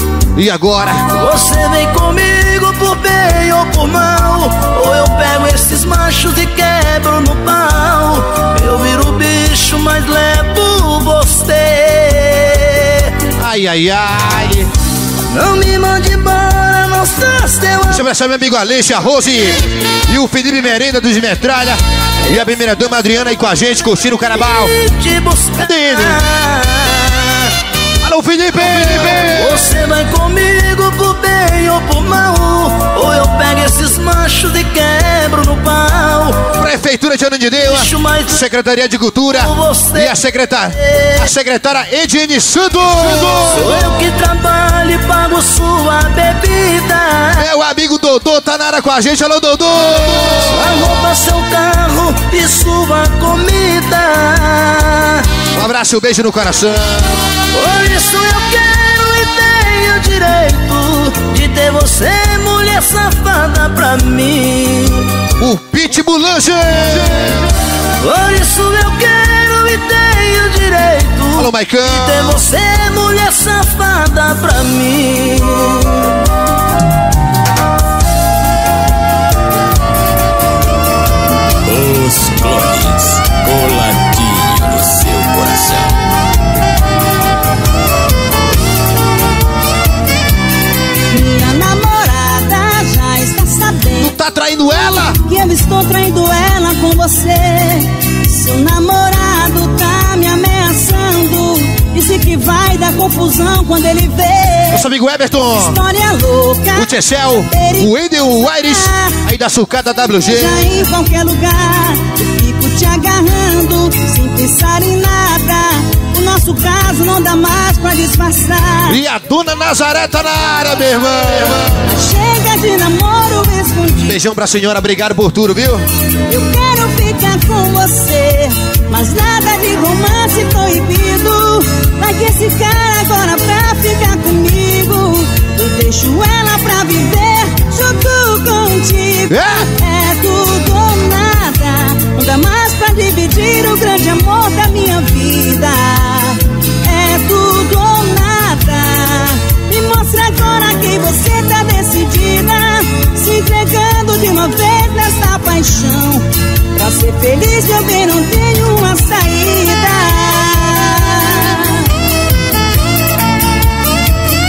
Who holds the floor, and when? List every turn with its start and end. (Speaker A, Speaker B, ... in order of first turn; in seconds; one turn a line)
Speaker A: 0.4-1.1
Speaker B: 1.1-13.1
Speaker A: 13.4-14.7
Speaker B: 15.3-18.0
Speaker A: 17.9-24.7
Speaker B: 24.4-27.1
Speaker A: 25.6-26.2
Speaker A: 28.0-29.7
Speaker B: 29.3-36.5
Speaker A: 36.6-43.9
Speaker B: 37.7-38.4
Speaker B: 39.4-40.2
Speaker B: 40.7-41.3
Speaker B: 43.5-47.5
Speaker A: 47.4-50.8
Speaker B: 50.5-55.2
Speaker A: 55.5-57.1
Speaker B: 57.5-65.0
Speaker A: 65.4-67.4
Speaker B: 68.0-76.0
Speaker A: 71.4-72.4
Speaker C: 81.7-86.0
Speaker D: 91.1-94.1
Speaker A: 94.0-95.2
Speaker D: 95.2-104.8
Speaker A: 104.7-105.8
Speaker D: 105.6-106.9
Speaker A: 106.7-110.7
Speaker D: 107.4-109.0
Speaker D: 110.3-119.0
Speaker A: 118.9-121.8
Speaker D: 121.9-124.2
Speaker A: 124.1-125.8
Speaker D: 126.3-146.3
Speaker A: 139.3-139.7
Speaker D: 146.9-156.2
Speaker D: 156.8-160.8